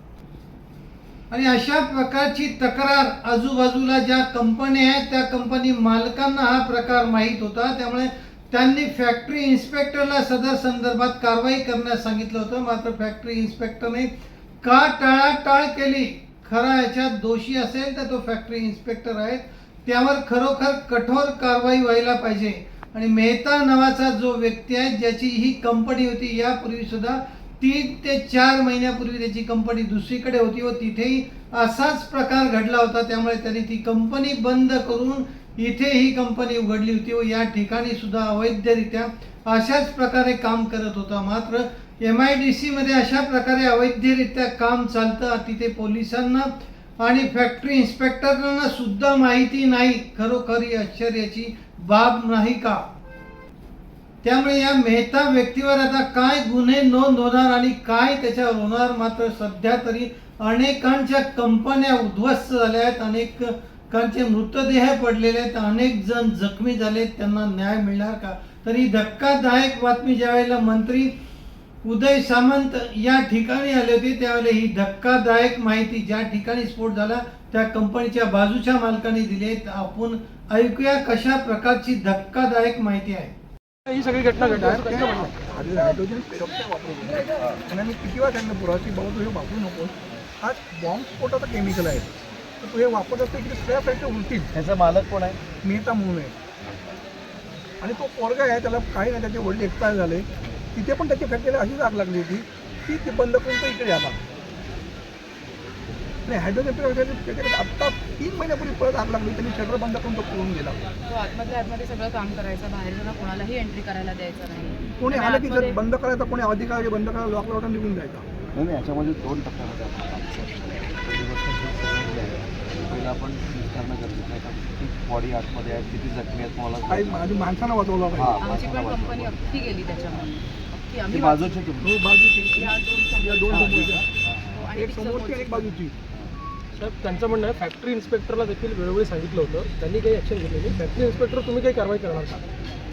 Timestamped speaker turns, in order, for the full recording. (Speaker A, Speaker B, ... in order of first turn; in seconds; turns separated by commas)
Speaker A: 1.3-14.1, Speaker A: 14.6-52.8, Speaker A: 54.2-71.1, Speaker A: 71.8-83.3, Speaker B: 83.9-85.3, Speaker C: 84.4-92.1, Speaker D: 87.2-87.6, Speaker C: 92.6-94.5, Speaker D: 94.5-95.4, Speaker C: 95.6-96.3, Speaker C: 97.8-104.2, Speaker C: 106.2-110.8, Speaker E: 111.1-115.8, Speaker C: 115.0-118.3, Speaker D: 118.5-127.3, Speaker C: 126.9-128.4, Speaker D: 128.1-129.3, Speaker E: 128.4-131.7, Speaker D: 131.1-131.9, Speaker C: 131.8-134.0, Speaker E: 132.4-135.7, Speaker D: 133.5-134.5, Speaker C: 134.7-135.9, Speaker B: 136.8-142.4